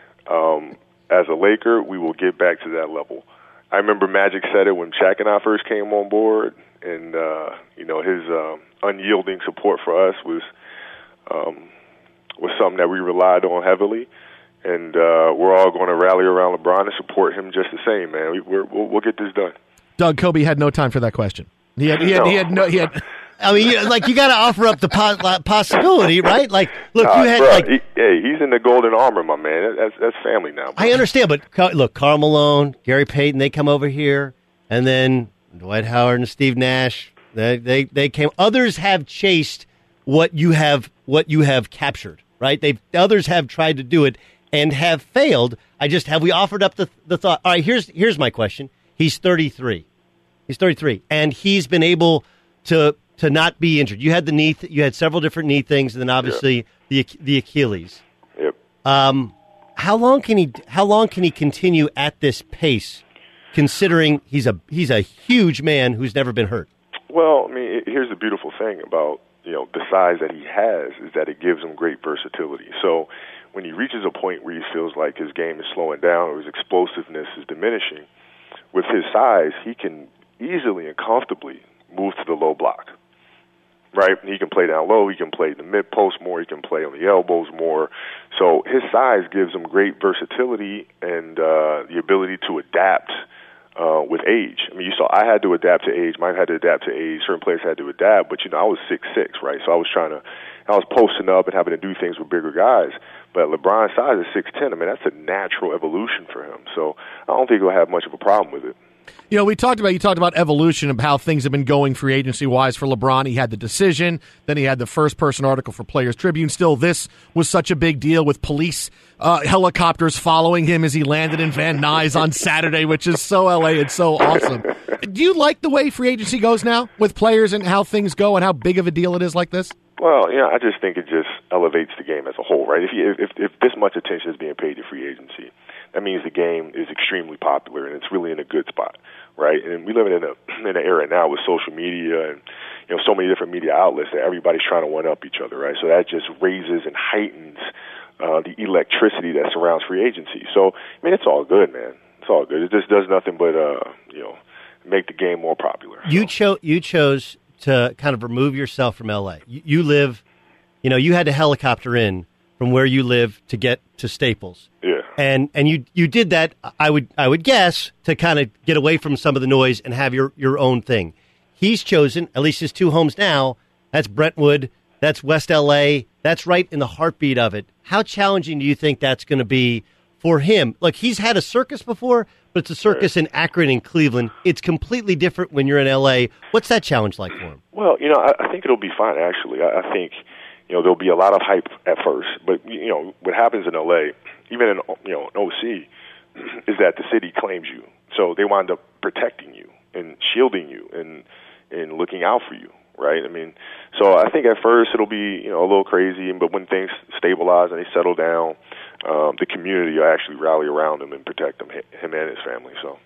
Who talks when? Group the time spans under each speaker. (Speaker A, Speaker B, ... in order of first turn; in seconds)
Speaker A: 0.3-10.5, 11.3-11.7, 12.4-14.1, 14.6-19.5, 21.9-22.8, 27.0-31.0, 67.1-78.1, 78.7-82.9, 83.9-93.2, 93.8-108.8, 130.0-147.7, 148.2-156.3, 164.8-165.1, 187.7-195.9, 196.4-213.0
Speaker B: 20.0-23.0, 109.3-129.8
Speaker C: 23.4-27.7, 30.8-49.9, 50.5-58.0, 58.8-66.7, 156.1-160.2, 160.8-164.7, 165.2-187.6